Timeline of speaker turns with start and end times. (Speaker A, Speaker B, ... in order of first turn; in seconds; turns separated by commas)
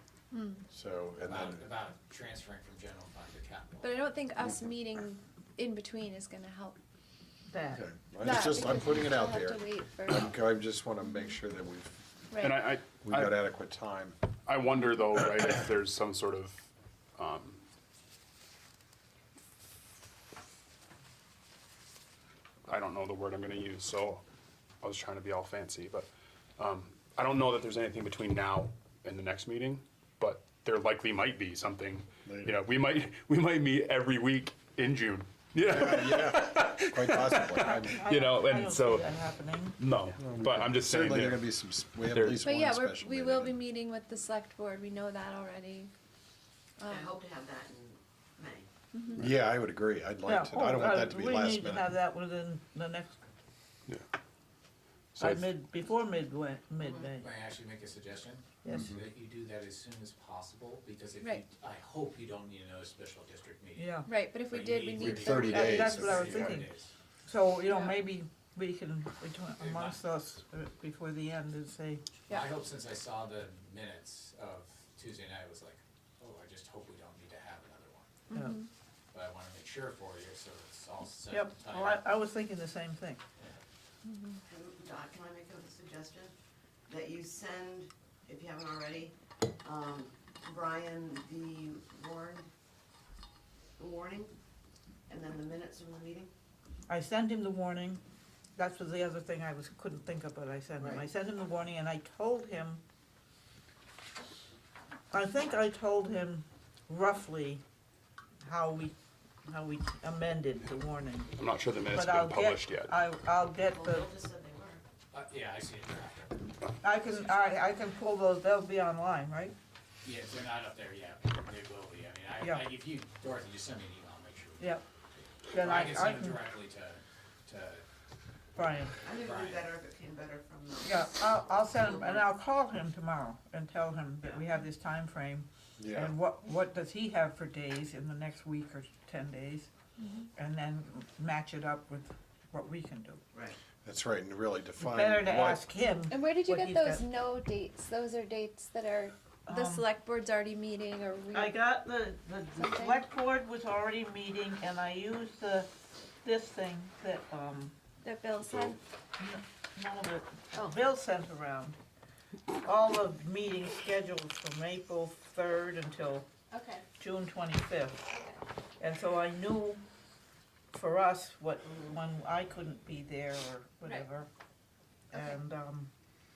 Speaker A: 0.7-1.7, Speaker B: 1.2-3.9, Speaker C: 3.8-6.8, Speaker A: 4.4-4.8, Speaker D: 7.5-7.8, Speaker A: 7.8-12.0, Speaker C: 8.2-10.3, Speaker C: 12.3-12.6, Speaker E: 12.4-13.4, Speaker A: 13.0-14.2, Speaker E: 14.5-17.6, Speaker E: 22.7-24.2, Speaker E: 24.8-39.1, Speaker A: 32.3-32.6, Speaker A: 35.6-38.0, Speaker D: 37.6-39.8, Speaker E: 39.8-42.5, Speaker A: 40.2-43.6, Speaker C: 42.4-45.9, Speaker F: 46.9-48.7, Speaker A: 49.2-51.9, Speaker D: 50.3-53.2, Speaker A: 55.1-55.5, Speaker D: 55.2-57.3, Speaker F: 56.8-57.1, Speaker B: 57.2-66.9, Speaker A: 58.7-59.0, Speaker D: 63.8-64.1, Speaker C: 64.1-65.3, Speaker A: 65.0-66.6, Speaker D: 65.5-66.7, Speaker D: 67.3-72.1, Speaker B: 69.6-70.0, Speaker B: 72.3-78.1, Speaker C: 78.4-78.6, Speaker B: 79.1-82.0, Speaker D: 81.3-83.2, Speaker F: 84.5-86.3, Speaker F: 86.9-92.5, Speaker F: 93.8-94.3, Speaker F: 95.1-96.3, Speaker D: 96.9-98.0, Speaker D: 98.6-102.8, Speaker F: 100.8-101.1, Speaker D: 105.1-107.6, Speaker D: 108.4-108.9, Speaker D: 109.5-111.3, Speaker E: 111.4-112.9, Speaker D: 111.9-114.1, Speaker F: 113.7-114.8, Speaker B: 115.1-117.7, Speaker D: 116.8-119.5, Speaker B: 120.0-127.8, Speaker D: 122.4-122.7, Speaker D: 125.5-126.4, Speaker D: 128.6-129.0, Speaker F: 129.0-132.3, Speaker B: 129.1-129.7, Speaker D: 130.8-139.7, Speaker A: 135.8-136.1, Speaker D: 140.4-143.2, Speaker A: 143.8-145.6, Speaker D: 144.8-147.0, Speaker C: 146.1-151.5, Speaker D: 149.5-149.9, Speaker D: 151.3-155.7, Speaker C: 152.6-153.0, Speaker D: 156.2-157.7, Speaker C: 158.0-158.8, Speaker D: 159.2-161.8, Speaker D: 162.5-166.3, Speaker C: 166.5-166.8, Speaker D: 167.0-168.1, Speaker D: 168.8-169.8, Speaker D: 170.7-174.3, Speaker D: 175.1-175.9